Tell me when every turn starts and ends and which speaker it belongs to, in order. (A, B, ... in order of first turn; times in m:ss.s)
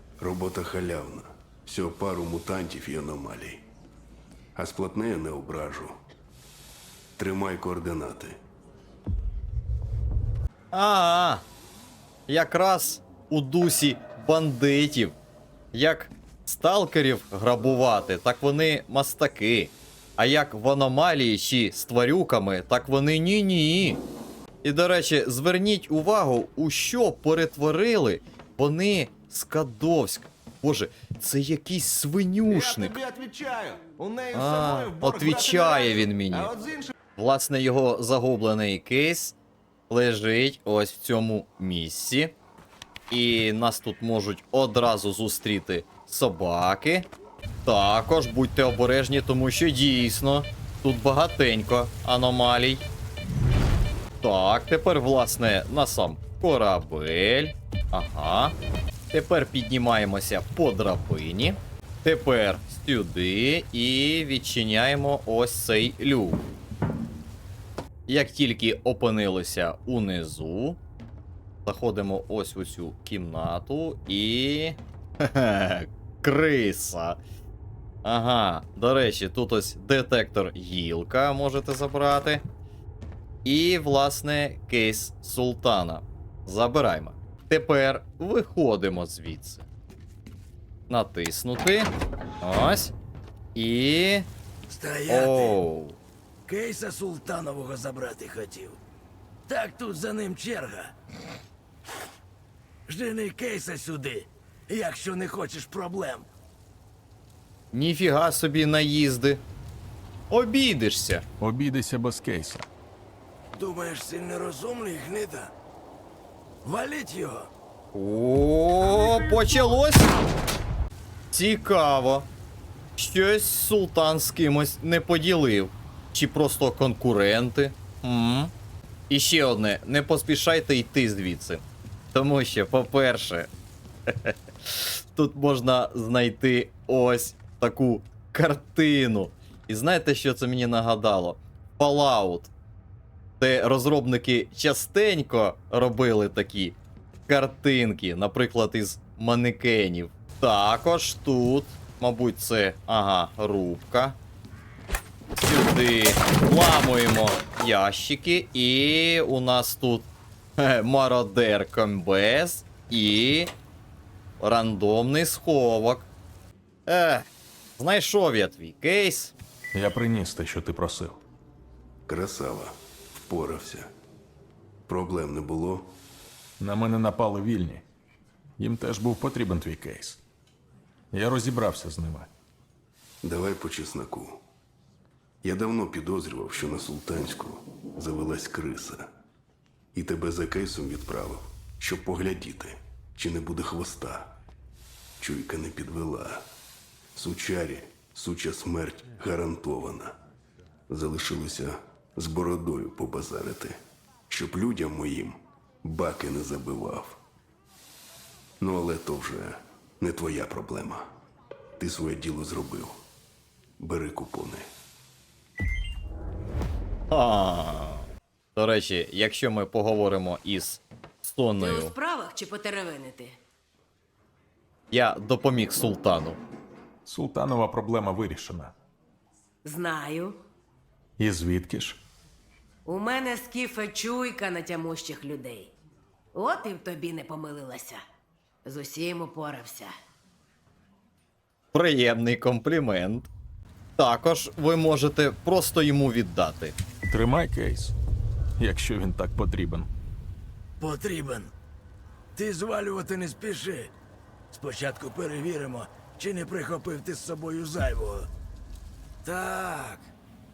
0:00.2-0:03.6 A
0:04.6-0:06.0 A
0:07.2-0:08.4 A
0:10.7-0:11.4 B
0:12.3-0:15.2 B
0:15.7-0:24.0 B
0:24.6-0:33.0 B
0:32.5-0:36.9 C
0:34.3-0:36.5 B
0:37.2-0:39.4 B
0:39.9-0:42.3 B
0:43.1-0:47.1 B
0:47.6-0:52.8 B
0:54.2-0:58.5 B
0:59.1-1:06.4 B
1:08.1-1:10.8 B
1:11.6-1:17.2 B
1:18.0-1:22.4 B
1:23.4-1:29.7 B
1:30.9-1:31.9 B
1:32.4-1:32.9 B
1:33.5-1:34.3 B
1:34.7-1:35.6 D
1:35.1-1:36.0 B
1:36.4-1:38.8 D
1:39.5-1:40.9 D
1:42.9-1:46.3 D
1:47.7-1:49.4 B
1:50.3-1:51.2 B
1:51.4-1:52.7 E
1:53.5-1:55.5 D
1:56.6-1:57.5 D
1:57.9-2:00.1 B
2:01.3-2:02.3 B
2:03.0-2:08.5 B
2:09.1-2:13.5 B
2:14.1-2:22.5 B
2:23.4-2:34.2 B
2:35.4-2:43.5 B
2:44.4-2:46.1 B
2:46.9-2:47.2 B
2:47.8-2:49.3 B
2:49.7-2:51.2 E
2:52.1-2:53.9 A
2:54.9-2:55.9 A
2:56.6-2:57.8 E
2:58.6-3:00.2 E
3:01.1-3:02.3 E
3:03.2-3:04.4 A
3:05.4-3:09.1 A
3:09.9-3:14.3 A
3:15.2-3:16.4 A
3:17.1-3:20.2 A
3:20.9-3:23.8 A
3:24.3-3:27.2 A
3:28.6-3:31.1 A
3:31.8-3:33.0 A
3:33.8-3:34.7 A
3:37.1-3:41.9 B
3:41.6-3:43.3 F
3:44.9-3:46.4 B
3:47.0-3:48.7 E
3:49.6-3:50.4 F
3:51.2-3:52.0 E
3:52.8-3:55.7 F
3:56.3-3:58.0 F
3:58.6-3:59.9 F
4:01.7-4:03.3 B
4:04.0-4:06.8 B
4:07.1-4:07.9 E
4:08.6-4:09.9 E
4:10.8-4:11.5 D
4:12.3-4:13.9 D
4:14.5-4:18.3 D
4:19.2-4:20.1 D